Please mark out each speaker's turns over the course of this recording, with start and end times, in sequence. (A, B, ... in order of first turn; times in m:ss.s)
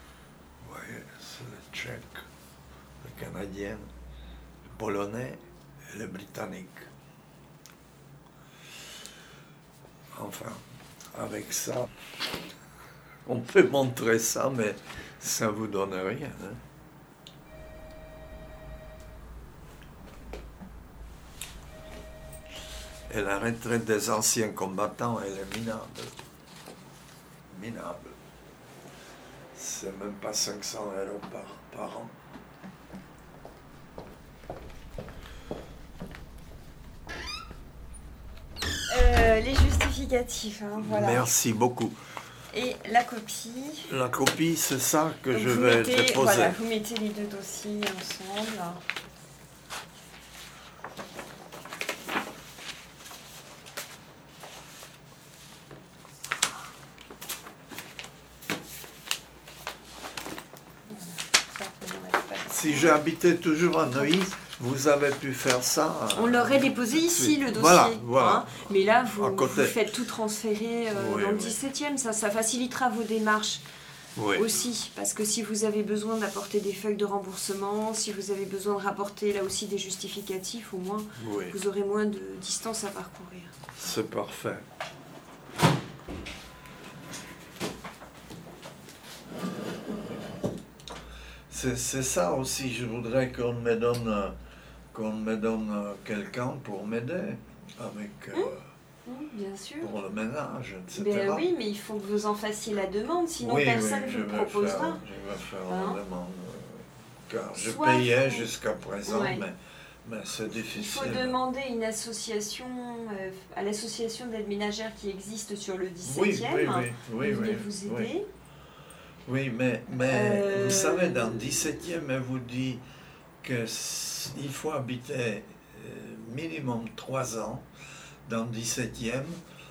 0:00.6-0:02.3 A
0:03.0-0:03.9 A
0:04.7-0:06.9 A
0:10.1-0:11.9 A
0:13.2-0:16.6 A
0:23.1-0:26.2 A
0:27.5-0:28.2 A
0:29.5-0:32.2 A
0:38.9-0:41.3 B
0:40.8-0:42.0 A
0:42.5-0:43.9 B
0:43.9-0:46.6 A
0:45.3-0:48.8 B
1:00.9-1:03.0 B
1:02.5-1:09.9 A
1:03.9-1:04.3 B
1:06.1-1:13.6 B
1:10.9-1:11.6 A
1:14.2-1:14.6 A
1:14.3-1:23.6 B
1:21.2-1:21.6 A
1:23.8-1:24.6 A
1:31.5-1:34.4 A
1:34.9-1:38.6 A
1:39.1-1:39.9 B
1:39.8-1:41.5 A
1:40.9-1:45.0 B
1:43.4-1:51.4 A
1:45.7-1:46.0 B
1:47.5-1:48.5 B
1:49.1-1:49.4 B
1:50.6-1:58.3 B
1:56.0-1:58.1 A
1:59.3-2:02.8 A
2:00.0-2:01.7 B
2:03.4-2:07.7 A
2:08.3-2:09.4 A